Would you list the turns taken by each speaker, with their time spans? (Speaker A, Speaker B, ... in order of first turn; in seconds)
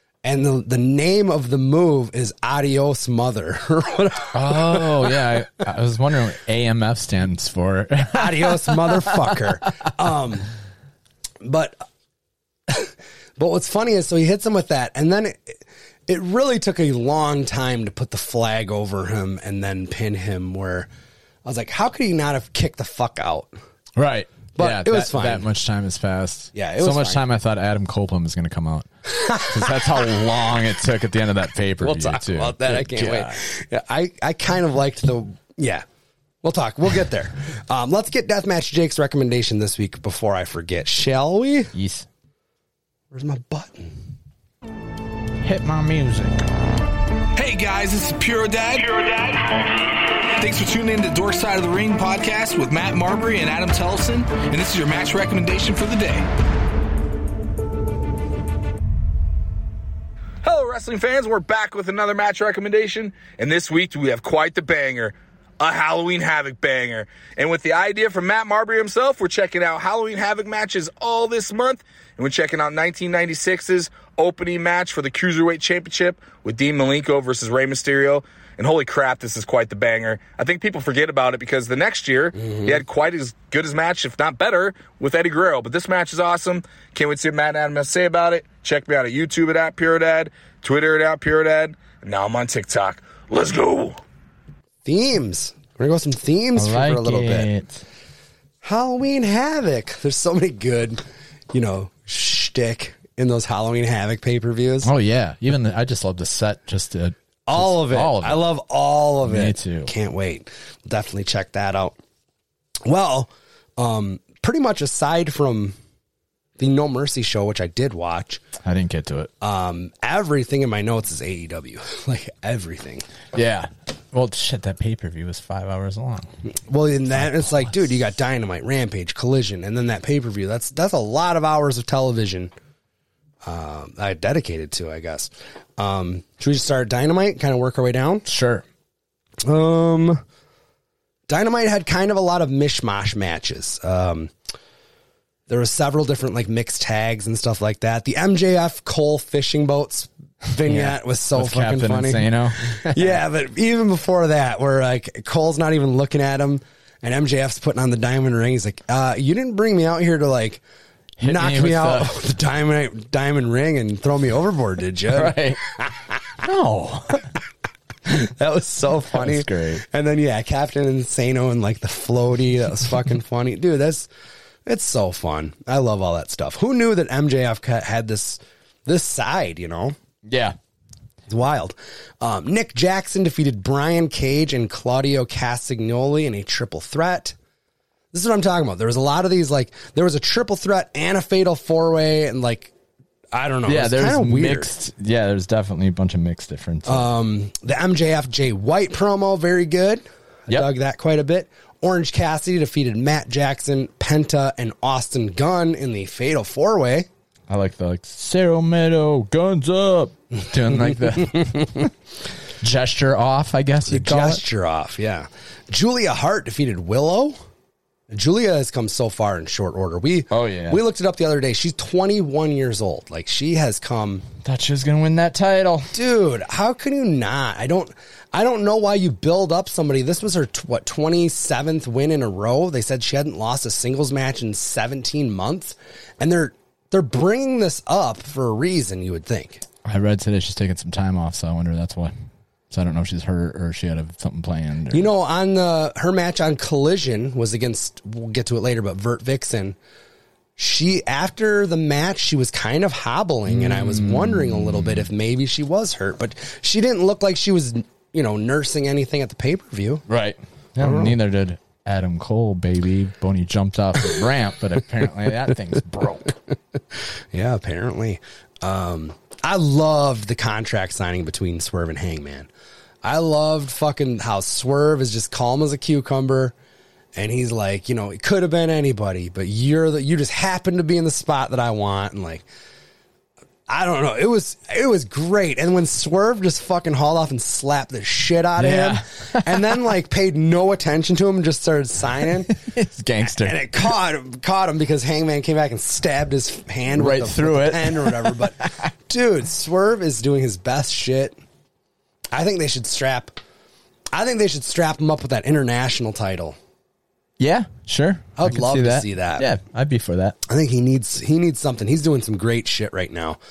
Speaker A: 0.2-5.2, 8.1-10.5, 11.4-11.8, 12.7-20.9, 21.4-23.5, 24.6-25.5, 26.5-27.2, 29.2-30.1, 31.8-35.9, 36.4-41.7, 43.1-44.0, 82.4-82.8, 94.8-97.5, 98.6-101.0, 101.5-104.9, 107.5-112.0, 112.8-115.8, 116.6-118.4, 119.4-123.0, 126.5-132.5, 133.4-138.3, 139.4-140.2, 141.3-144.3, 145.5-160.6, 161.2-165.9, 168.1-174.1, 174.7-179.9, 181.3-187.3, 188.1-192.7, 193.3-194.7, 196.9-207.1, 210.9-211.7, 213.9-217.4, 218.1-224.2, 225.9-239.6, 244.9-249.8, 250.6-260.0, 260.8-261.2, 267.3-272.5, 273.0-276.5, 277.1-282.4, 283.7-292.5, 293.2-301.4, 302.3-303.4, 304.1-306.6, 308.4-309.5, 310.5-313.4
Speaker B: 4.3-9.5, 24.0-33.4, 41.7-42.1, 45.4-46.5, 96.6-97.8, 104.8-108.5, 109.2-109.9, 118.6-119.3, 123.3-126.3, 127.1-127.8, 138.3-138.6, 150.7-153.2, 161.2-162.2, 165.1-165.6, 166.4-167.3, 169.1-169.8, 180.2-180.6, 193.7-197.1, 207.5-211.9, 212.6-214.4, 220.3-220.8, 224.4-225.9, 239.8-242.1, 242.7-245.1, 253.5-255.1, 260.1-266.3, 288.6-289.8, 292.2-293.9, 296.9-298.9, 307.4-310.4
Speaker C: 47.4-56.3, 60.4-94.0